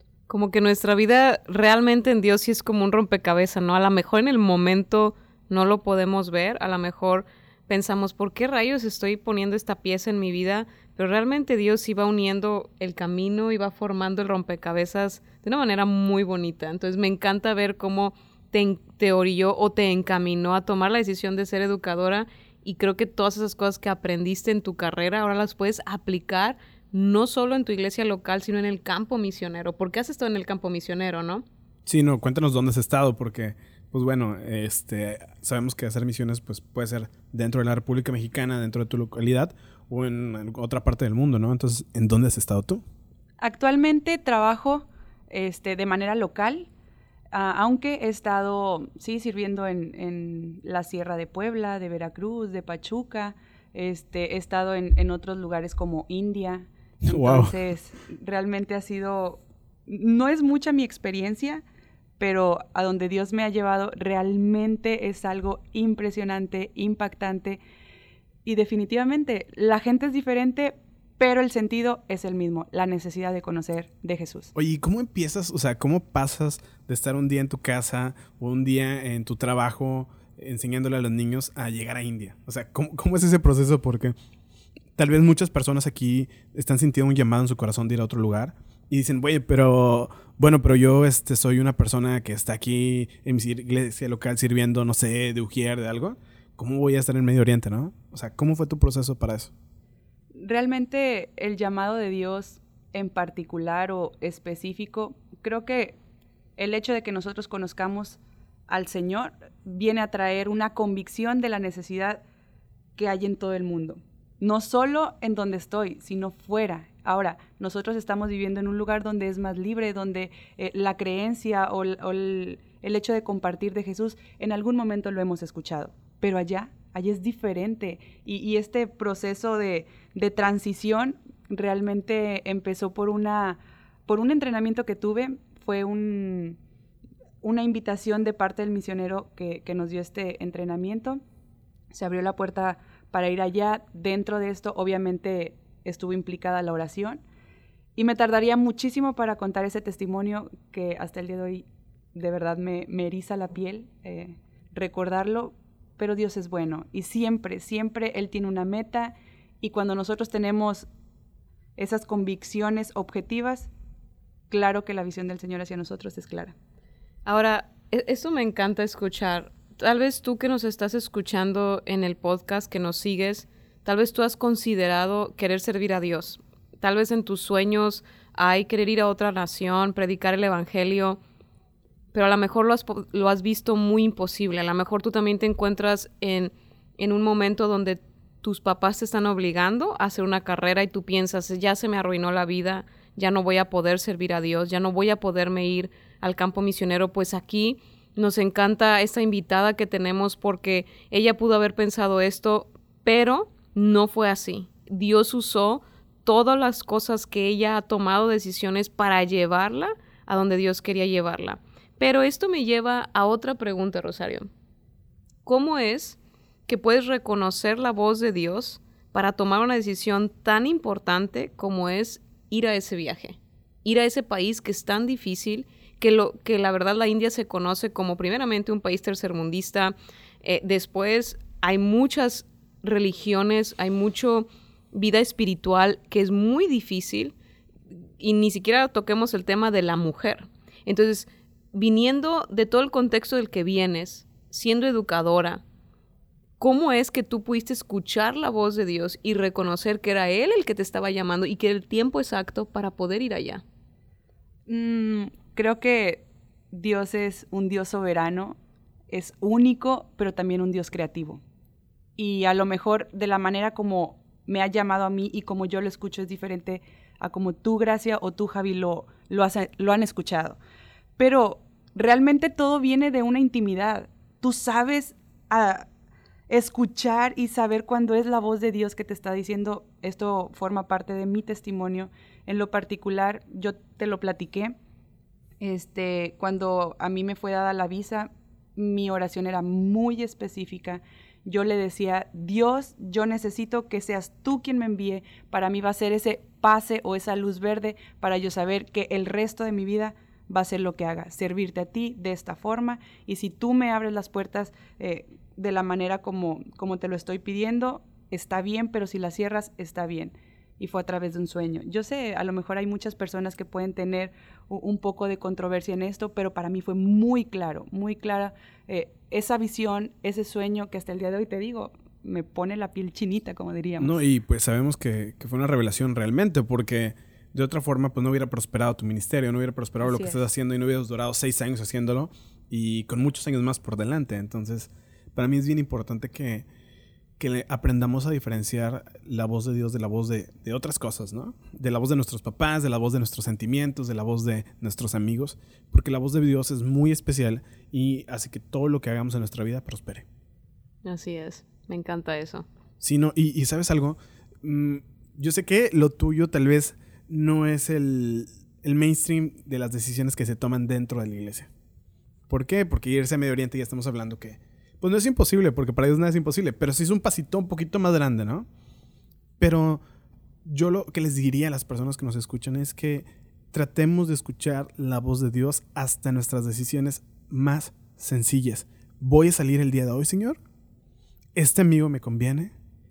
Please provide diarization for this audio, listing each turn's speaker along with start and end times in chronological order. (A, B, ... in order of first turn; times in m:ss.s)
0:00.3-0:31.4 A
0:31.9-0:42.8 B
0:43.4-0:46.7 C
0:47.3-1:01.6 C
0:57.0-0:57.6 B
1:02.2-1:07.6 C
1:08.4-1:14.5 C
1:14.6-1:24.1 B
1:25.0-1:39.5 B
1:40.4-1:46.0 C
1:46.6-1:52.2 C
1:53.0-2:16.6 C
2:17.4-2:21.2 C
2:21.9-2:27.2 C
2:28.0-2:40.9 C
2:41.8-2:43.7 C
2:44.5-2:46.6 C
2:47.2-3:01.2 A
3:02.1-3:34.5 A
3:35.4-3:57.3 A
3:58.2-4:05.6 A
4:06.6-4:13.6 A
4:14.7-4:18.6 C
4:19.1-4:21.4 C
4:22.2-4:30.6 C
4:31.2-4:35.9 C
4:36.5-4:44.8 C
4:45.6-5:24.2 C
5:24.0-5:36.7 B
5:30.0-5:30.4 C
5:37.4-5:50.2 B
5:51.0-5:52.7 A
5:53.0-6:01.7 B
6:02.5-6:08.7 B
6:09.6-6:10.0 B
6:10.7-6:20.6 B
6:21.6-6:22.7 B